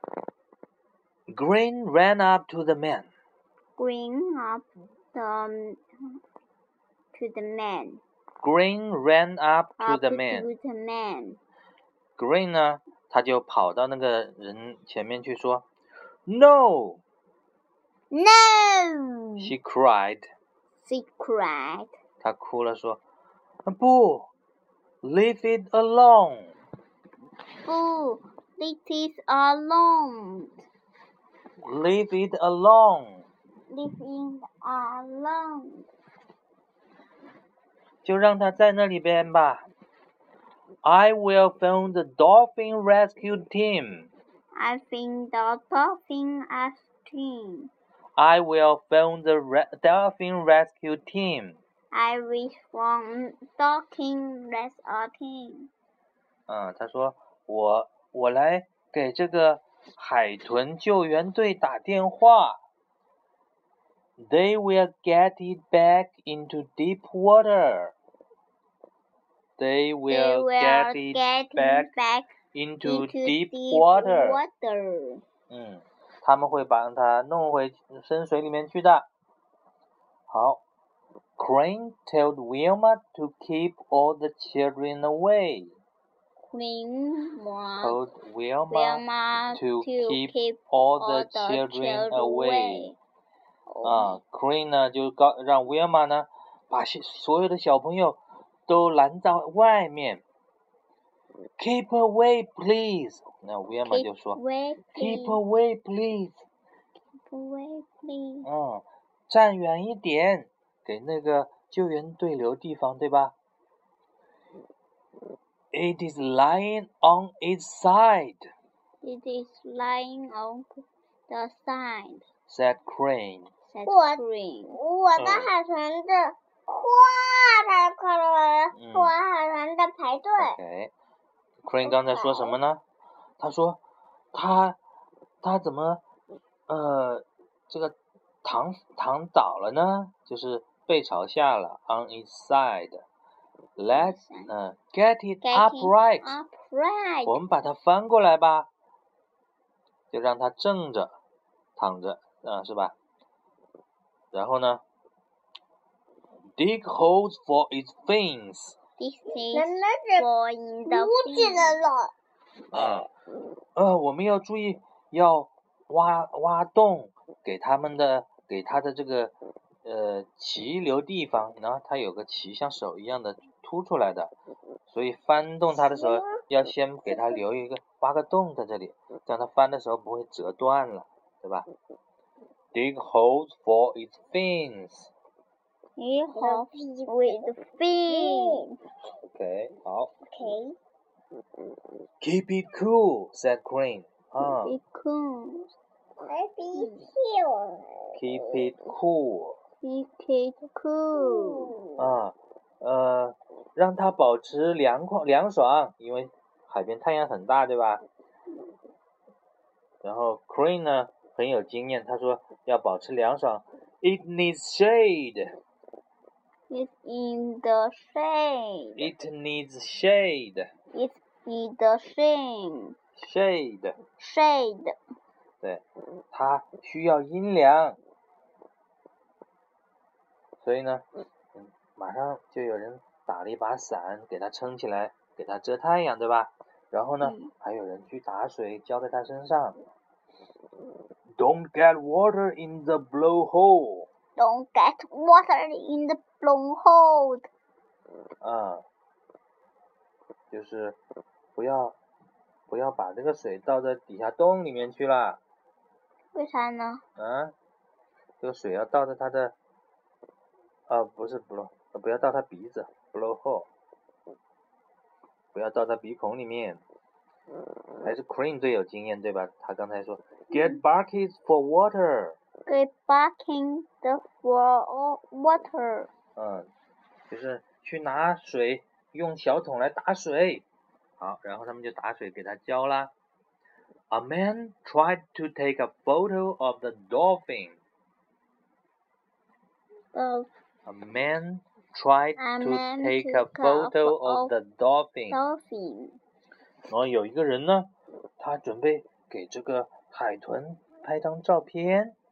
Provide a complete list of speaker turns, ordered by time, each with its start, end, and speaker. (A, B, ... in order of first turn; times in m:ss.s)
0:01.3-0:03.1 A
0:03.8-0:05.8 B
0:07.1-0:08.0 B
0:08.4-0:10.5 A
0:09.8-0:11.4 B
0:12.2-0:15.7 A
0:16.3-0:17.0 A
0:18.1-0:19.5 B
0:19.4-0:20.3 A
0:20.8-0:21.9 B
0:22.2-0:23.0 A
0:23.7-0:24.3 A
0:25.0-0:26.5 A
0:27.6-0:30.5 B
0:31.6-0:33.2 A
0:33.7-0:35.9 B
0:38.0-0:39.6 A
0:40.8-0:44.1 A
0:44.6-0:47.7 B
0:48.2-0:51.6 A
0:51.9-0:55.7 B
0:56.5-1:02.6 A
1:04.2-1:07.9 A
1:09.6-1:11.9 A
1:10.1-1:12.3 B
1:12.5-1:14.4 A
1:12.8-1:15.2 B
1:15.5-1:19.1 A
1:20.3-1:20.6 A
1:21.4-1:25.7 A
1:26.4-1:28.0 B
1:27.8-1:32.9 A
1:28.7-1:33.0 B
1:33.7-1:34.2 B
1:33.8-1:40.2 A
1:41.6-1:44.4 A
1:43.9-1:45.4 B
1:45.0-1:46.4 A
1:47.2-1:48.5 B
1:48.4-1:53.3 A
1:55.7-1:58.5 A
1:59.0-2:02.2 B
2:02.5-2:03.5 A
2:03.7-2:04.8 B
2:03.8-2:10.6 C
2:05.2-2:05.5 A
2:08.8-2:09.2 A
2:10.4-2:10.9 A
2:11.6-2:12.8 A
2:11.8-2:12.6 C
2:13.4-2:13.8 A
2:14.3-2:14.8 A
2:15.4-2:16.0 A
2:16.7-2:23.0 A
2:23.8-2:26.4 A
2:23.9-2:24.5 B
2:25.4-2:27.4 B
2:27.2-2:28.7 A
2:30.1-2:31.2 A
2:31.8-2:33.0 A
2:34.3-2:34.8 A
2:36.6-2:38.8 A
2:39.0-2:41.8 B
2:39.5-2:40.3 C
2:40.9-2:42.1 C
2:42.7-2:43.1 A
2:43.8-2:49.3 A
2:49.8-2:54.3 A
2:54.9-3:01.7 A
2:55.7-2:56.4 C
3:02.7-3:05.1 A
3:06.0-3:08.8 B
3:06.4-3:07.5 C
3:08.1-3:08.7 C
3:09.3-3:10.1 A
3:10.2-3:10.8 C
3:12.2-3:14.7 A
3:14.4-3:15.7 B
3:16.2-3:18.7 C
3:16.8-3:17.1 B
3:18.1-3:19.6 A
3:19.8-3:21.8 B
3:21.2-3:22.0 C
3:22.0-3:28.0 A
3:30.0-3:35.6 A
3:36.7-3:39.1 B
3:39.0-3:40.7 A
3:40.9-3:43.0 B
3:43.2-3:44.0 A
3:44.2-3:45.0 B
3:45.6-3:48.0 A
3:50.6-3:59.8 A
3:57.2-3:57.5 B
4:01.4-4:04.1 A
4:04.4-4:07.5 B
4:08.4-4:08.8 A
4:10.5-4:11.0 A
4:11.6-4:12.0 A
4:12.7-4:15.4 A
4:16.3-4:17.0 B
4:17.2-4:17.5 A
4:18.4-4:19.5 A
4:20.9-4:23.7 A
4:25.5-4:26.8 A
4:28.0-4:32.4 A
4:32.7-4:36.1 B
4:36.4-4:36.7 A
4:37.3-4:40.6 A
4:41.2-4:43.1 A
4:44.1-4:47.8 A
4:50.1-4:50.5 B
4:50.9-4:55.4 A
4:52.4-4:54.5 B
4:55.3-4:56.2 B
4:56.9-5:02.2 A